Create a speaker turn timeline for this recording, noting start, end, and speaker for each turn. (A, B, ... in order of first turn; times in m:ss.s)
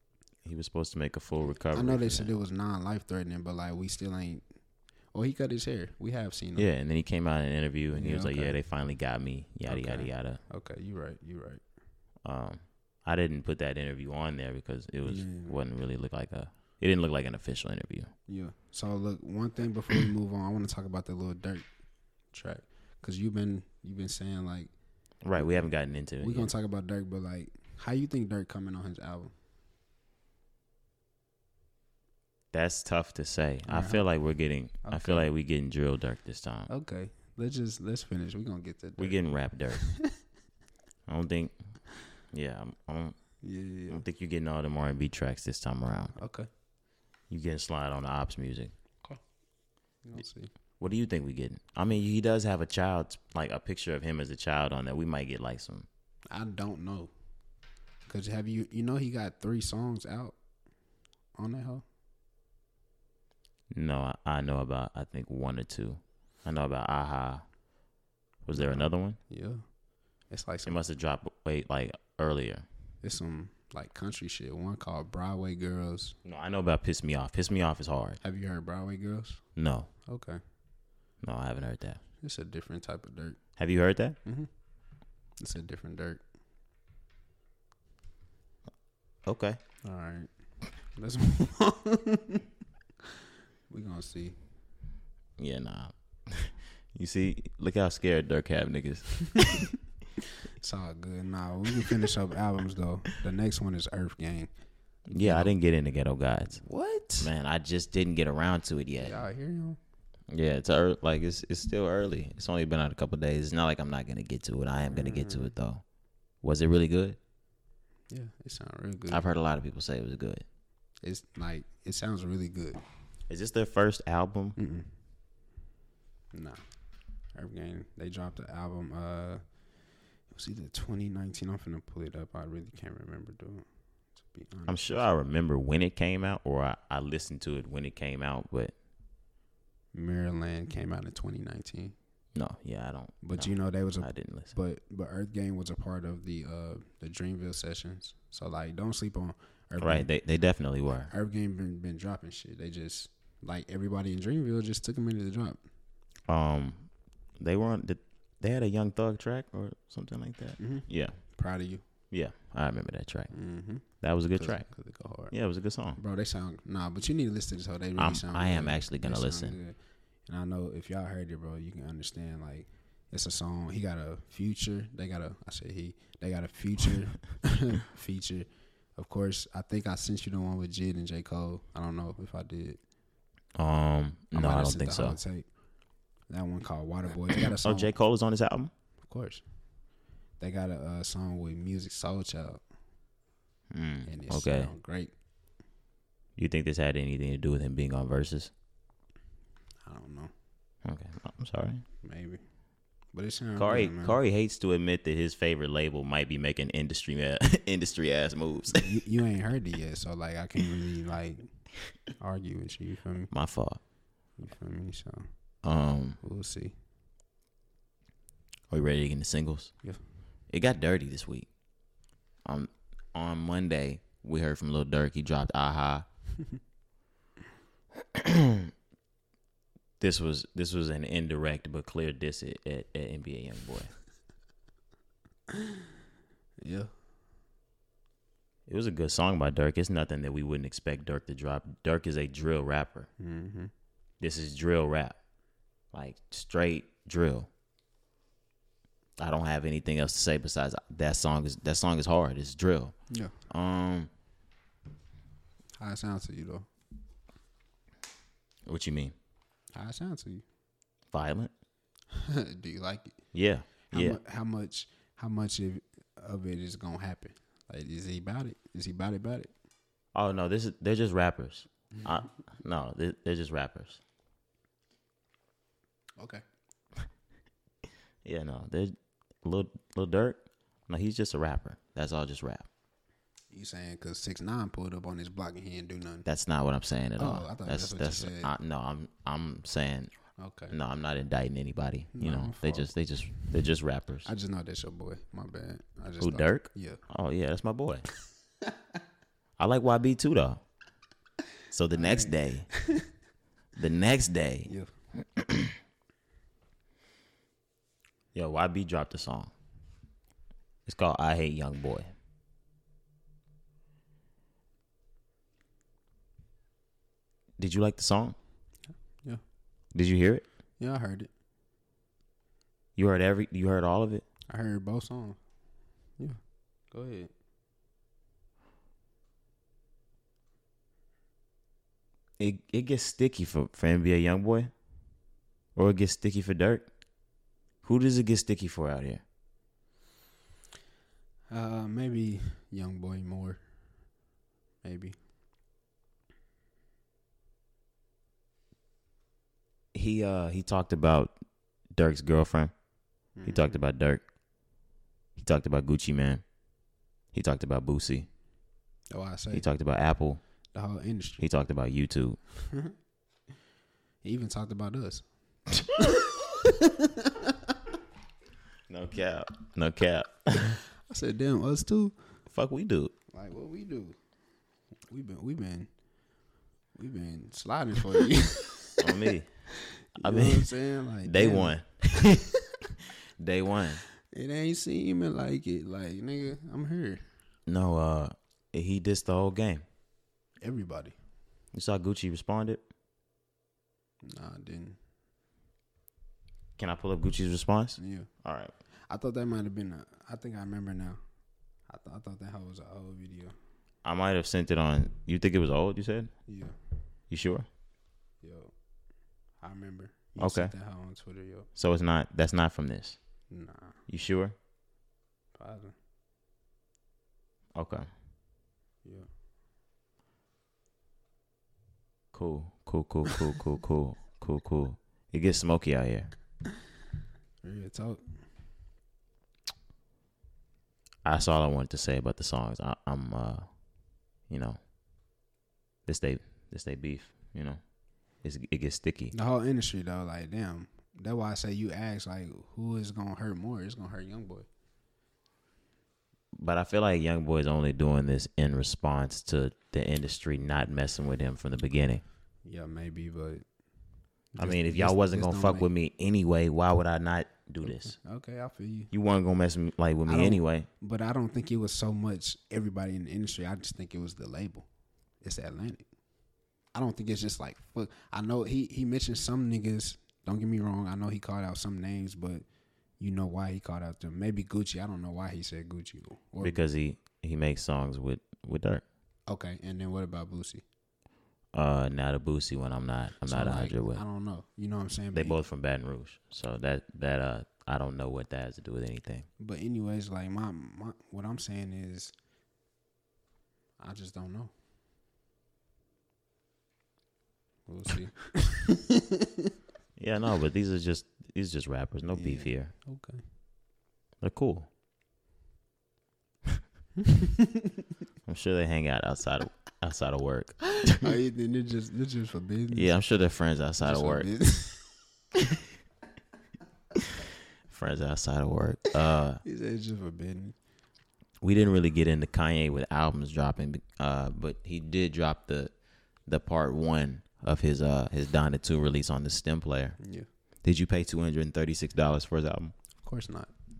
0:00.4-0:02.3 A
0:01.7-0:04.4 B
0:05.1-0:06.7 B
0:06.6-0:10.4 A
0:07.9-0:08.6 B
0:09.7-0:11.6 B
0:12.2-0:18.1 A
0:15.0-0:15.6 B
0:18.3-0:21.7 B
0:22.3-0:24.7 B
0:25.2-0:26.5 A
0:25.4-0:25.6 B
0:26.2-0:29.3 B
0:32.5-0:36.7 A
0:33.6-0:34.0 B
0:34.8-0:35.3 B
0:36.7-0:39.2 B
0:39.0-0:39.8 A
0:39.7-0:40.1 B
0:41.1-0:41.6 A
0:42.3-0:43.2 A
0:43.4-0:44.0 B
0:43.9-0:46.1 A
0:46.2-0:46.5 B
0:47.3-0:48.7 A
0:50.0-0:50.5 B
0:50.8-0:55.9 A
0:56.3-0:57.1 B
0:58.1-1:00.4 B
1:01.4-1:01.8 B
1:03.7-1:07.4 A
1:08.4-1:09.2 A
1:08.5-1:09.6 B
1:10.3-1:10.8 B
1:10.6-1:12.6 A
1:13.0-1:16.2 B
1:16.2-1:18.2 A
1:18.2-1:19.4 B
1:19.6-1:19.9 A
1:20.1-1:20.4 B
1:21.2-1:22.0 A
1:22.2-1:23.4 B
1:23.6-1:24.2 A
1:25.4-1:26.2 B
1:29.2-1:29.6 A
1:29.8-1:30.3 B
1:30.9-1:32.4 B
1:33.7-1:34.4 B
1:35.4-1:39.2 A
1:39.3-1:39.6 B
1:40.6-1:44.5 B
1:45.1-1:45.5 B
1:45.1-1:46.6 A
1:46.6-1:47.3 B
1:47.2-1:49.2 A
1:49.0-1:49.8 B
1:50.3-1:55.8 A
1:54.9-1:55.5 B
1:56.4-1:57.2 A
1:58.1-1:59.3 B
1:59.1-2:00.4 A
2:01.0-2:02.8 B
2:03.3-2:04.6 A
2:04.6-2:04.9 B
2:06.3-2:06.6 B
2:07.3-2:09.4 B
2:10.3-2:13.6 B
2:14.2-2:14.8 B
2:14.7-2:18.7 A
2:19.9-2:22.0 B
2:22.3-2:24.5 A
2:23.2-2:30.1 B
2:29.8-2:31.1 A
2:31.0-2:35.6 B
2:36.3-2:41.2 A
2:40.6-2:41.8 B
2:42.1-2:43.3 A
2:43.3-2:45.3 B
2:44.0-2:44.6 A
2:45.3-2:46.0 A
2:46.0-3:02.8 B
2:48.0-2:49.6 A
3:03.6-3:05.2 A
3:04.3-3:05.4 B
3:06.3-3:07.9 B
3:07.6-3:08.7 A
3:09.0-3:09.4 B
3:10.4-3:12.6 B
3:13.7-3:14.7 A
3:14.0-3:15.1 B
3:16.4-3:18.5 A
3:19.8-3:20.3 B
3:20.8-3:21.8 A
3:22.0-3:22.4 B
3:23.1-3:24.2 B
3:23.6-3:28.9 A
3:28.7-3:31.5 B
3:32.1-3:33.3 B
3:33.3-3:33.8 A
3:34.4-3:35.3 B
3:35.6-3:36.2 A
3:36.2-3:36.8 B
3:38.7-3:39.7 A
3:40.5-3:41.5 A
3:42.4-3:46.0 A
3:48.1-3:48.7 A
3:50.0-3:53.9 A
3:55.5-3:55.8 B
3:56.6-3:56.9 B
3:58.7-4:03.1 A
4:03.2-4:03.7 B
4:04.2-4:05.2 A
4:05.9-4:07.5 A
4:09.2-4:12.9 A
4:13.5-4:14.1 A
4:15.8-4:16.7 B
4:18.6-4:19.1 A
4:19.7-4:20.4 B
4:21.1-4:21.5 A
4:22.1-4:23.2 B
4:23.3-4:24.2 A
4:23.9-4:29.5 B
4:30.1-4:34.0 A
4:36.2-4:36.4 B
4:38.2-4:42.7 A
4:43.5-4:46.2 B
4:46.2-4:50.1 A
4:47.2-4:48.5 B
4:50.4-4:50.7 B
4:50.7-4:54.3 A
4:52.1-4:52.9 B
4:54.2-4:57.0 B
4:56.2-4:58.1 A
4:59.6-5:00.6 A
5:01.7-5:02.7 A
5:01.9-5:03.1 B
5:03.8-5:04.7 A
5:04.7-5:04.9 B
5:05.4-5:05.7 A
5:08.3-5:09.5 A
5:10.8-5:12.1 A
5:17.6-5:18.4 A
5:19.9-5:20.4 A
5:20.8-5:21.3 B
5:23.0-5:24.2 A
5:24.5-5:25.4 B
5:26.9-5:27.3 B
5:32.4-5:34.7 A
5:35.7-5:36.9 A
5:37.8-5:39.2 A
5:41.5-5:43.6 B
5:44.8-5:45.2 B
5:49.9-5:51.4 A
5:51.9-5:52.7 A
5:53.4-5:53.8 B
5:53.4-5:54.2 A
5:55.4-5:56.4 A
5:57.3-5:58.3 A
5:59.1-5:59.6 B
5:59.5-6:00.4 A
6:00.7-6:01.4 B
6:01.4-6:02.4 A
6:04.2-6:05.2 B
6:06.0-6:07.7 B
6:08.9-6:10.8 A
6:11.0-6:12.1 B
6:12.5-6:13.1 A
6:13.3-6:14.1 B
6:15.1-6:15.9 B
6:17.0-6:19.1 B
6:19.0-6:19.5 A
6:19.8-6:22.2 B
6:20.2-6:20.7 A
6:21.2-6:22.5 A
6:23.4-6:24.0 A
6:24.2-6:27.2 B
6:27.7-6:29.8 A
6:30.6-6:31.2 B
6:31.7-6:32.8 A
6:34.2-6:35.0 B
6:36.8-6:38.7 A
6:38.0-6:38.3 B
6:39.1-6:41.2 B
6:41.9-6:43.6 B
6:44.0-6:46.3 A
6:46.5-6:46.8 B
6:47.3-6:47.7 A
6:48.4-6:48.7 B
6:49.6-6:51.7 B
6:50.4-6:50.7 A
6:51.8-6:53.2 A
6:53.5-6:54.0 B
6:54.1-6:54.5 A
6:55.5-6:55.9 B
6:57.7-6:58.1 A
6:59.0-6:59.3 B
7:02.3-7:06.3 A
7:07.6-7:08.4 B
7:11.2-7:13.7 A
7:14.5-7:14.8 A
7:16.1-7:17.8 A
7:18.4-7:19.3 A
7:19.3-7:24.7 B
7:26.5-7:32.2 A
7:32.6-7:33.6 B
7:34.5-7:35.9 B
7:34.6-7:38.2 A
7:37.8-7:39.1 B
7:39.1-7:40.9 A
7:40.3-7:44.9 B
7:45.4-7:46.1 B
7:46.9-7:52.6 B
7:53.2-7:56.8 B
7:56.6-7:59.0 A
7:59.5-8:00.8 B
8:01.7-8:04.2 A
8:03.4-8:05.6 B
8:05.3-8:09.5 A
8:09.6-8:12.3 B
8:14.0-8:14.7 B
8:17.8-8:19.5 B
8:20.2-8:22.9 A
8:22.3-8:23.4 B
8:24.4-8:24.9 A
8:27.3-8:27.7 B
8:28.5-8:31.3 A
8:31.1-8:33.2 B
8:32.9-8:34.5 A
8:34.0-8:35.1 B
8:37.9-8:39.6 A
8:39.6-8:40.8 B
8:41.6-8:45.9 A
8:46.4-8:50.2 A
8:50.2-8:50.5 B
8:50.8-8:52.9 A
8:53.2-8:53.7 B